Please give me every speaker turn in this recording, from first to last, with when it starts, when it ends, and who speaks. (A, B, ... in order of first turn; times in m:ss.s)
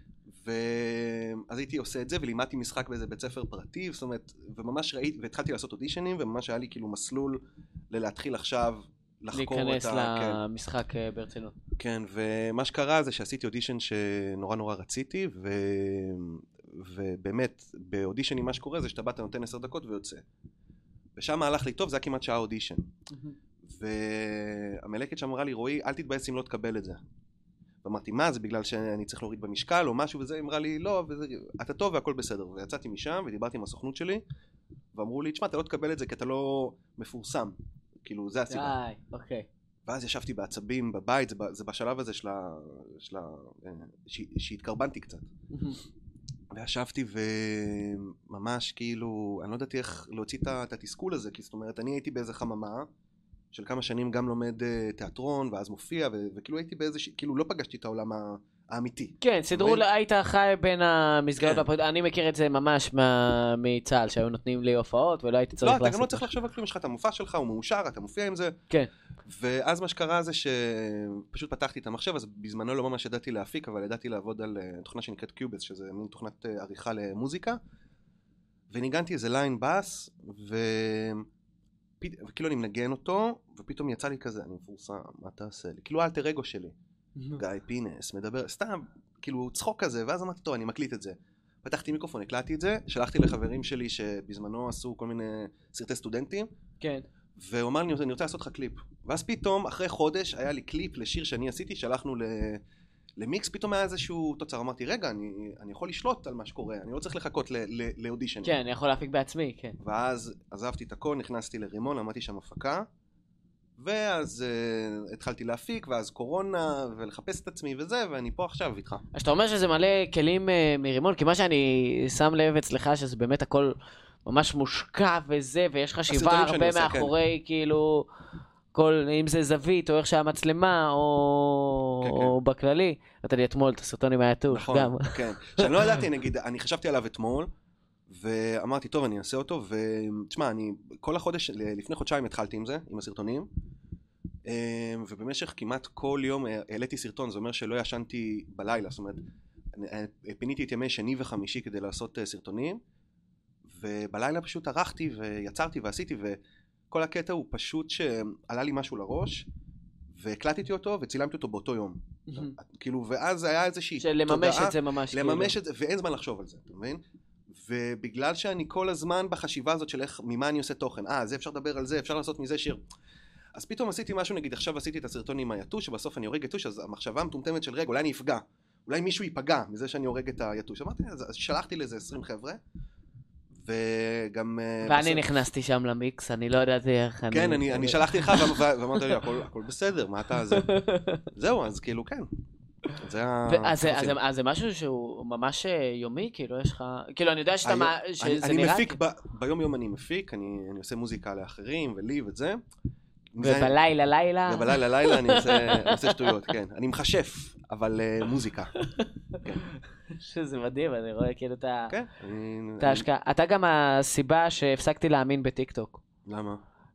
0:00.3-0:10.4 A
0:09.3-0:11.6 B
0:11.8-0:20.2 A
0:21.2-0:22.9 A
0:23.6-0:27.0 A
0:27.8-0:34.2 A
0:34.9-0:38.8 A
0:38.5-0:39.5 B
0:39.9-0:45.3 A
0:45.5-0:45.8 B
0:46.5-0:52.9 A
0:53.5-0:59.8 A
0:59.2-1:06.3 B
1:05.6-1:08.6 A
1:09.3-1:17.6 A
1:18.7-1:21.3 A
1:22.0-1:26.8 A
1:27.4-1:36.5 A
1:37.4-1:42.6 A
1:43.2-1:48.5 A
1:48.4-1:49.8 B
1:49.8-1:52.9 A
1:53.8-1:59.0 A
1:59.2-2:03.8 B
2:04.3-2:08.1 B
2:06.1-2:07.1 A
2:08.7-2:16.0 B
2:12.0-2:12.3 A
2:14.5-2:17.5 A
2:18.1-2:23.5 A
2:24.5-2:29.2 A
2:29.8-2:32.8 A
2:33.7-2:36.4 A
2:36.9-2:39.5 A
2:40.1-2:52.8 A
2:42.3-2:42.6 B
2:44.0-2:45.6 B
2:53.6-3:02.6 A
3:03.5-3:05.3 A
3:04.8-3:09.2 B
3:07.3-3:10.7 A
3:10.3-3:11.2 B
3:11.3-3:12.3 A
3:13.0-3:14.2 A
3:13.5-3:19.0 B
3:17.6-3:22.6 A
3:23.3-3:23.8 A
3:23.4-3:26.4 B
3:24.5-3:28.7 A
3:29.6-3:31.9 B
3:31.9-3:33.1 A
3:32.8-3:36.0 B
3:36.3-3:36.6 A